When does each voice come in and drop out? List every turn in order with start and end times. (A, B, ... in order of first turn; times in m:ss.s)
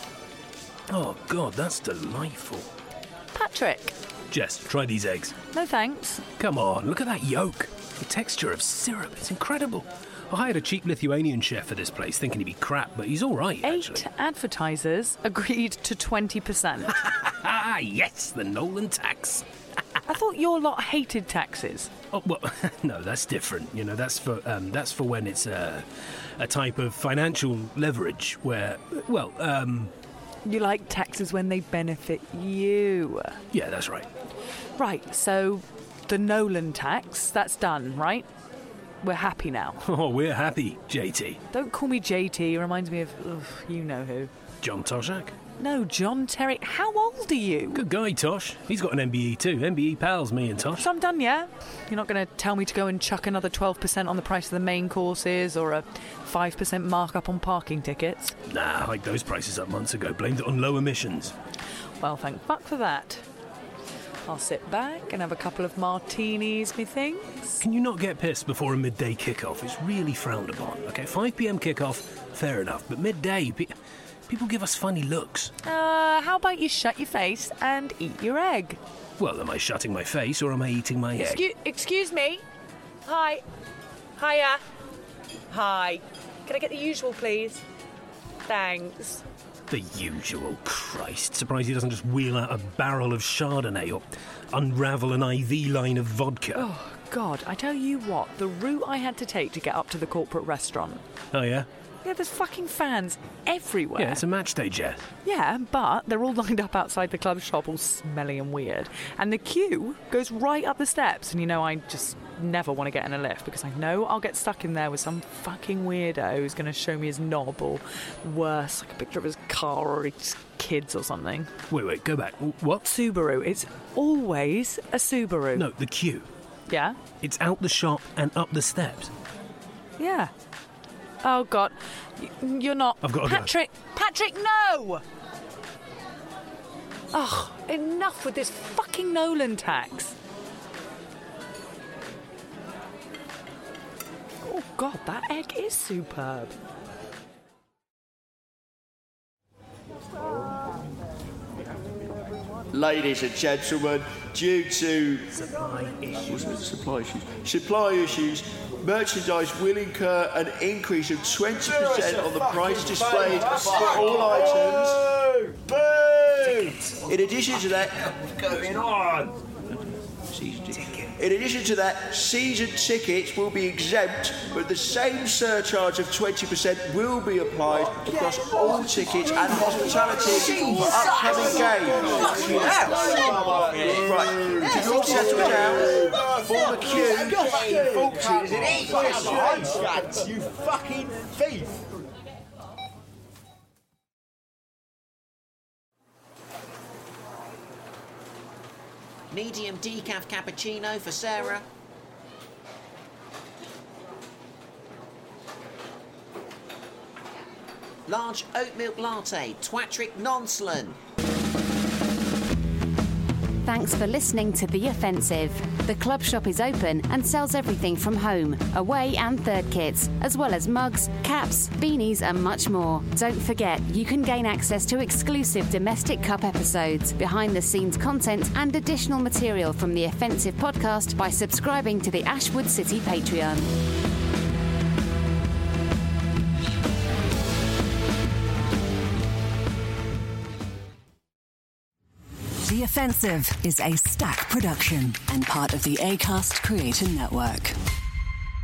0:00.9-0:02.7 A
0:03.3-0:04.0 B
0:04.3-0:05.4 A
0:05.5-0:06.2 B
0:06.4-0:14.0 A
0:13.6-0:17.0 B
0:17.0-0:19.4 A
0:20.1-0:21.9 B
0:22.1-0:25.8 A
0:26.4-0:29.9 A
0:30.4-0:33.4 B
0:33.5-0:34.1 A
0:34.8-0:38.3 B
0:39.0-0:39.8 B
0:39.8-0:41.4 A
0:41.5-0:44.3 B
0:44.6-0:45.3 A
0:45.6-0:47.8 B
0:47.7-0:50.8 A
0:50.7-0:58.4 B
0:58.5-1:01.3 A
1:02.0-1:03.2 B
1:04.3-1:07.6 B
1:07.6-1:13.7 A
1:14.3-1:15.5 A
1:15.6-1:18.8 B
1:19.2-1:21.4 A
1:21.2-1:22.4 B
1:23.0-1:23.4 B
1:24.2-1:24.6 B
1:25.5-1:27.6 B
1:28.5-1:29.2 B
1:29.7-1:36.7 A
1:36.5-1:41.0 B
1:41.3-1:41.7 A
1:42.0-1:44.2 B
1:44.0-1:45.1 A
1:45.2-2:01.5 B
2:01.7-2:02.8 A
2:02.8-2:05.6 B
2:05.5-2:06.3 A
2:06.7-2:07.0 B
2:07.2-2:09.1 A
2:10.0-2:10.3 B
2:11.2-2:15.0 B
2:13.0-2:13.5 A
2:17.1-2:20.2 B
2:24.4-2:26.5 B
2:32.7-2:35.3 C
2:35.3-2:36.5 A
2:36.3-2:48.9 C
2:51.2-3:10.1 C
3:19.3-3:21.6 D
3:28.1-3:31.0 D
3:33.6-3:53.7 E
4:02.7-4:07.7 F